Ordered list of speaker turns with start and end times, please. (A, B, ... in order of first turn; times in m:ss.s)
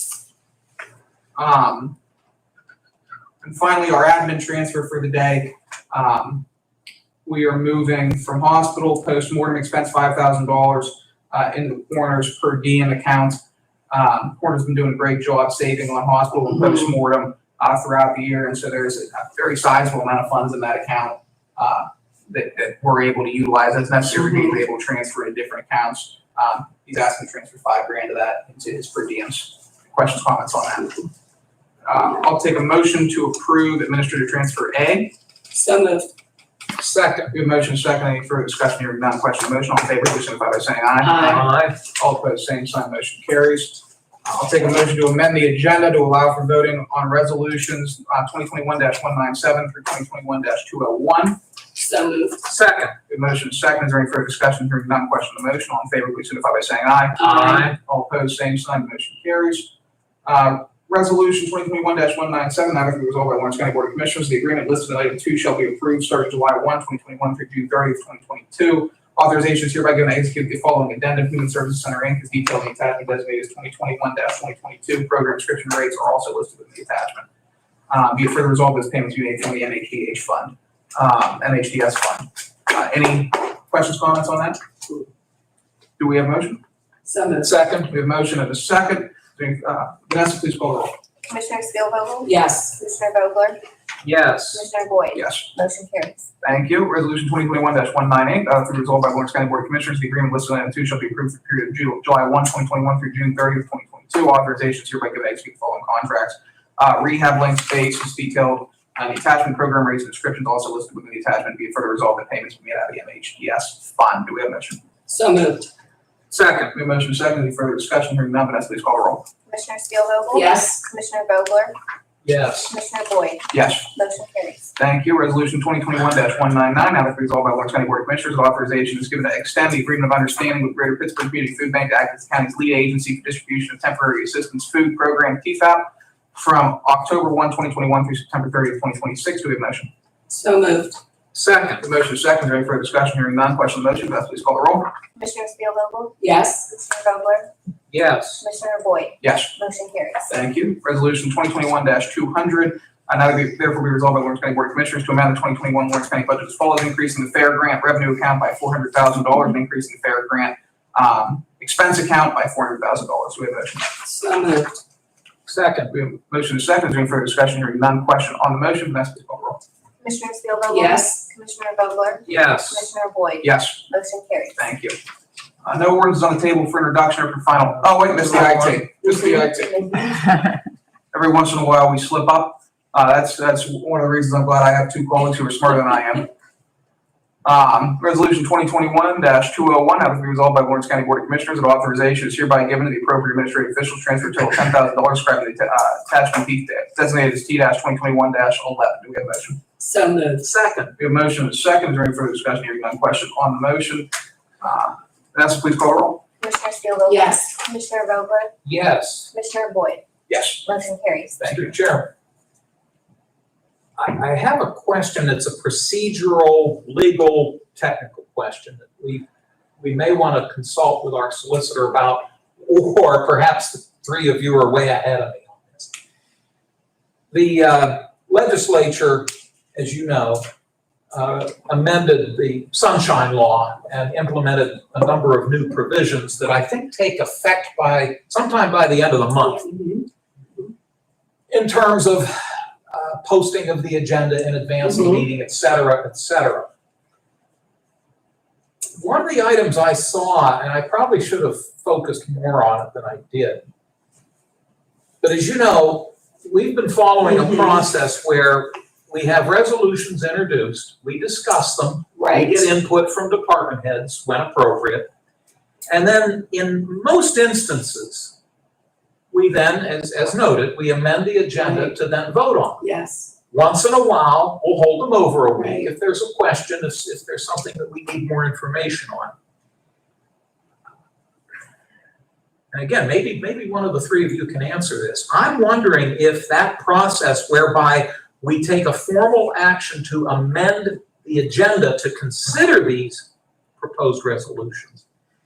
0:01.4-0:02.0 A
0:03.4-0:06.5 A
0:07.2-0:31.0 A
0:31.8-0:35.1 A
0:35.5-0:36.1 B
0:36.8-0:37.3 C
0:37.3-0:51.4 A
0:41.0-0:41.4 B
0:41.2-0:41.8 C
0:51.8-0:52.4 B
0:52.4-0:53.0 C
0:53.1-0:59.7 A
0:57.2-0:57.7 B
0:57.2-0:57.7 C
1:00.2-1:17.3 A
1:17.9-1:24.6 A
1:26.0-1:26.6 A
1:27.1-1:27.5 B
1:27.4-1:27.9 C
1:27.9-1:30.9 A
1:31.3-1:33.6 D
1:32.2-1:32.7 B
1:34.0-1:34.7 C
1:34.5-1:36.3 D
1:35.1-1:35.5 A
1:36.4-1:54.8 A
1:55.1-1:55.7 B
1:56.3-1:56.7 C
1:56.7-1:59.2 A
1:59.5-2:01.8 D
2:00.3-2:00.8 B
2:02.2-2:02.7 C
2:02.7-2:04.7 D
2:03.5-2:03.9 A
2:04.8-2:19.9 A
2:20.3-2:21.0 B
2:21.3-2:21.8 C
2:21.8-2:24.9 A
2:25.2-2:27.5 D
2:26.2-2:26.6 B
2:27.9-2:28.4 C
2:28.4-2:30.3 D
2:29.2-2:29.5 A
2:30.3-2:44.0 A
2:44.0-2:44.8 B
2:45.5-2:45.9 C
2:45.9-2:49.6 A
2:50.0-2:54.6 D
2:50.7-2:51.2 B
2:52.2-2:52.9 C
2:53.4-2:53.8 A
2:54.6-2:55.0 A
2:55.6-3:00.0 A
2:57.9-2:58.8 C
2:59.0-3:00.3 D
3:01.1-3:06.3 A
3:07.4-3:19.6 A
3:19.8-3:20.5 B
3:20.4-3:20.9 C
3:21.0-3:26.2 A
3:26.4-3:28.5 D
3:27.1-3:27.5 B
3:28.6-3:29.3 C
3:29.3-3:30.0 D
3:30.3-3:30.7 A
3:30.6-3:31.4 D
3:31.4-3:32.1 C
3:34.0-3:39.2 C
3:39.8-3:45.9 C
3:47.3-3:50.4 C
3:51.1-3:59.7 C
3:59.7-4:00.0 B
4:01.5-4:06.7 C
4:04.8-4:05.2 B
4:09.0-4:13.6 C
4:15.2-4:25.1 C
4:17.2-4:17.8 B
4:22.1-4:22.7 B
4:25.9-4:28.4 C
4:29.3-4:32.8 C
4:31.6-4:32.0 B
4:32.8-4:33.3 B
4:33.5-4:39.3 C
4:35.6-4:35.9 B
4:42.7-4:55.0 C